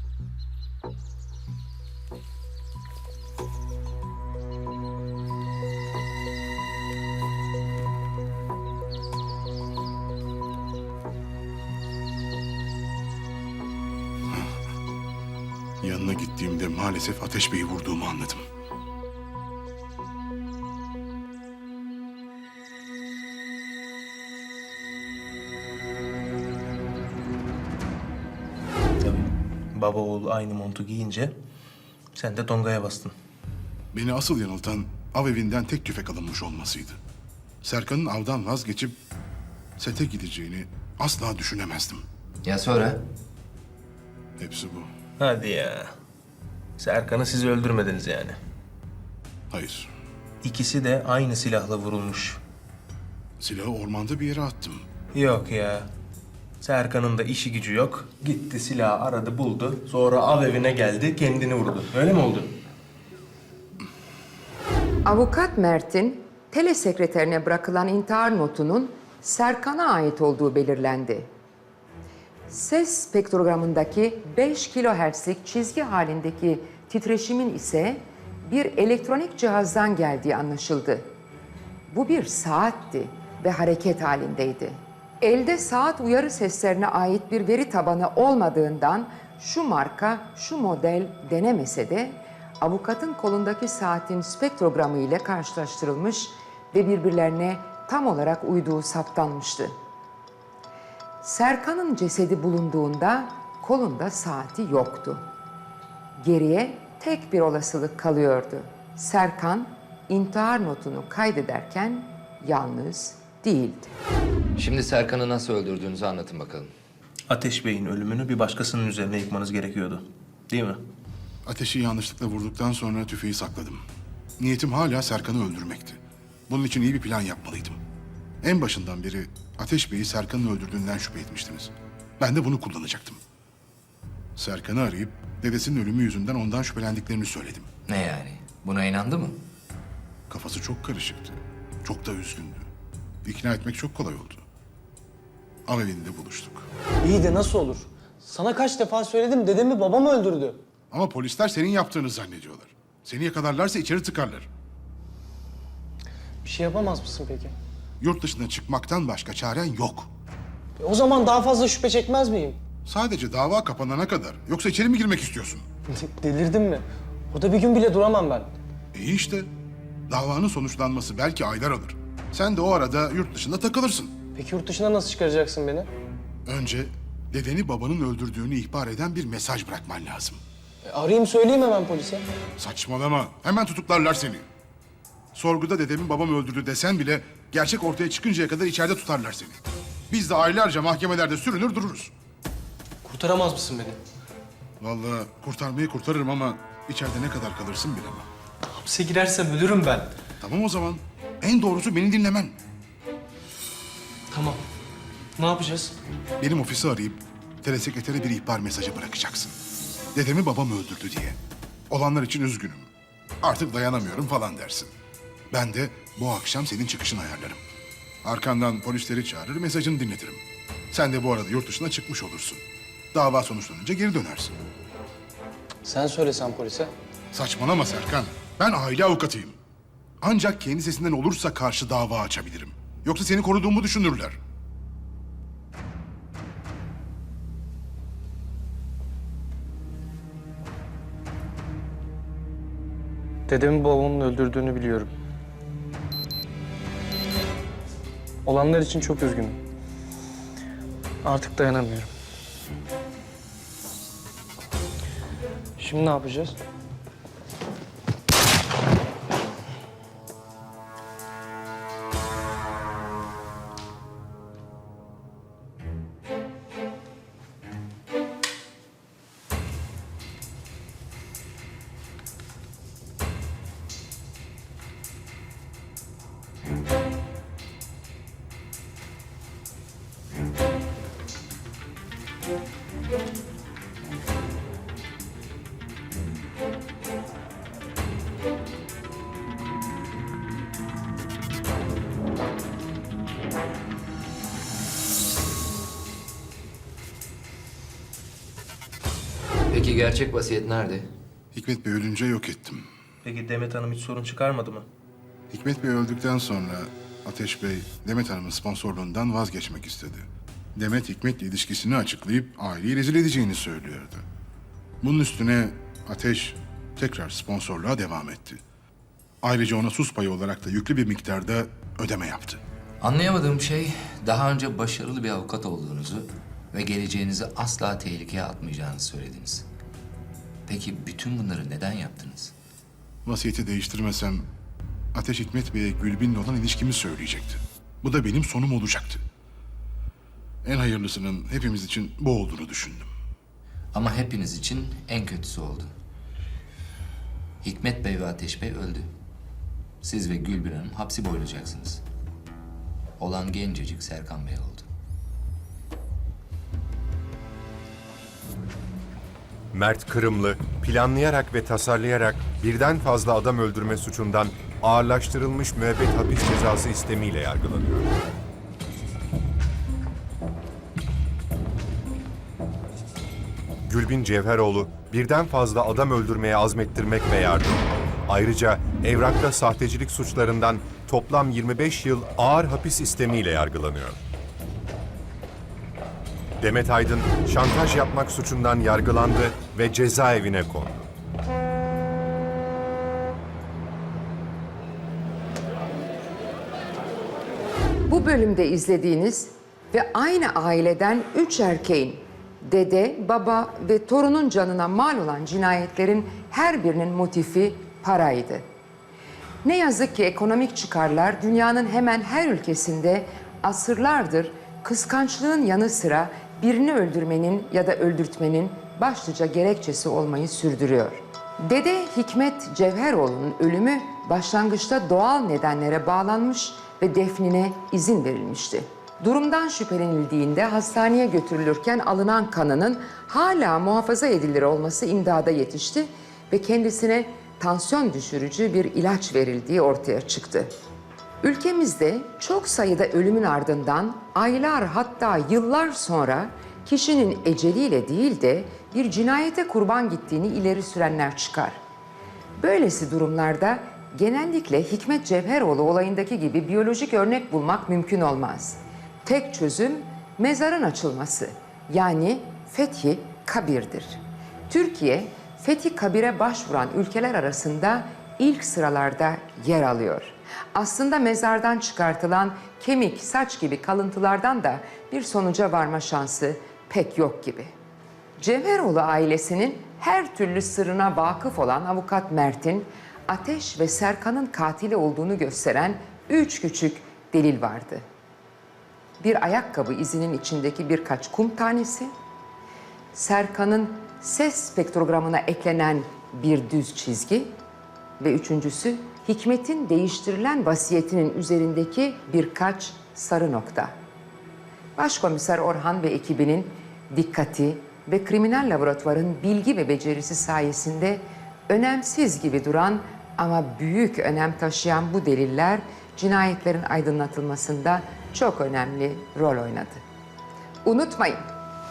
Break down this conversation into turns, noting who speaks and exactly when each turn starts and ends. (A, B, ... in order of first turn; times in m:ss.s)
0:15.8-0:18.4 A
0:29.0-0:31.3 B
0:32.2-0:33.1 B
0:33.9-0:37.0 A
0:37.6-0:39.0 A
0:39.8-0:42.0 A
0:42.4-0:43.0 C
0:44.4-0:44.9 A
0:45.2-0:45.9 B
0:46.8-0:48.4 B
0:49.5-0:49.9 A
0:50.4-0:52.4 B
0:53.4-0:54.8 A
0:55.1-0:55.9 B
0:56.6-1:02.6 B
1:05.0-1:11.3 D
1:12.5-1:21.1 D
1:21.9-1:39.7 D
1:41.2-1:45.2 D
1:46.2-1:53.9 D
1:54.6-1:56.7 C
1:57.3-2:00.8 B
2:01.5-2:03.8 A
2:04.4-2:07.8 A
2:08.4-2:13.2 A
2:14.4-2:17.7 A
2:17.9-2:19.4 C
2:20.3-2:22.7 A
2:23.2-2:24.4 A
2:25.7-2:26.7 A
2:27.0-2:30.6 E
2:30.9-2:34.5 A
2:36.4-2:37.6 E
2:38.0-2:40.1 A
2:40.8-2:42.6 E
2:42.9-2:45.7 A
2:46.0-2:48.5 E
2:48.9-2:49.5 A
2:50.1-2:54.1 A
2:54.4-2:55.9 E
2:56.5-3:00.4 A
3:00.8-3:02.3 E
3:02.6-3:04.4 A
3:05.4-3:09.6 A
3:10.1-3:12.1 A
3:13.0-3:14.0 E
3:14.8-3:18.3 A
3:18.8-3:20.1 E
3:20.4-3:22.6 A
3:24.3-3:24.6 E
3:25.4-3:26.0 E
3:26.4-3:29.6 A
3:30.1-3:31.4 A
3:31.9-3:32.9 A
3:33.4-3:34.9 A
3:35.5-3:37.6 A
3:38.2-3:42.6 A
3:43.1-3:44.6 A
3:45.8-3:46.9 E
3:47.3-3:49.6 A
3:50.2-3:54.4 A
4:03.5-4:05.1 E
4:08.5-4:09.6 E
4:11.2-4:12.1 E
4:15.8-4:16.6 E
4:59.7-5:01.1 C
5:01.5-5:02.9 A
5:03.2-5:04.9 B
5:05.5-5:14.2 A
5:15.0-5:18.6 A
5:19.4-5:22.6 A
5:23.0-5:29.7 C
5:30.7-5:32.5 C
5:33.2-5:34.5 A
5:35.1-5:39.2 A
5:40.6-5:43.1 A
5:43.9-5:45.9 C
5:47.6-5:49.1 C
5:50.0-5:52.0 C
5:53.2-5:54.9 C
5:59.7-6:08.1 F
6:13.9-6:24.2 F
6:26.6-6:31.1 F
6:38.1-6:48.7 D
6:49.6-7:20.7 D
7:21.4-7:31.8 D
7:32.6-7:57.7 D
7:58.4-8:08.0 D
8:09.2-8:12.1 D
8:13.1-8:17.5 D
8:18.2-8:24.0 D
8:25.0-8:40.0 D
8:40.8-8:41.4 D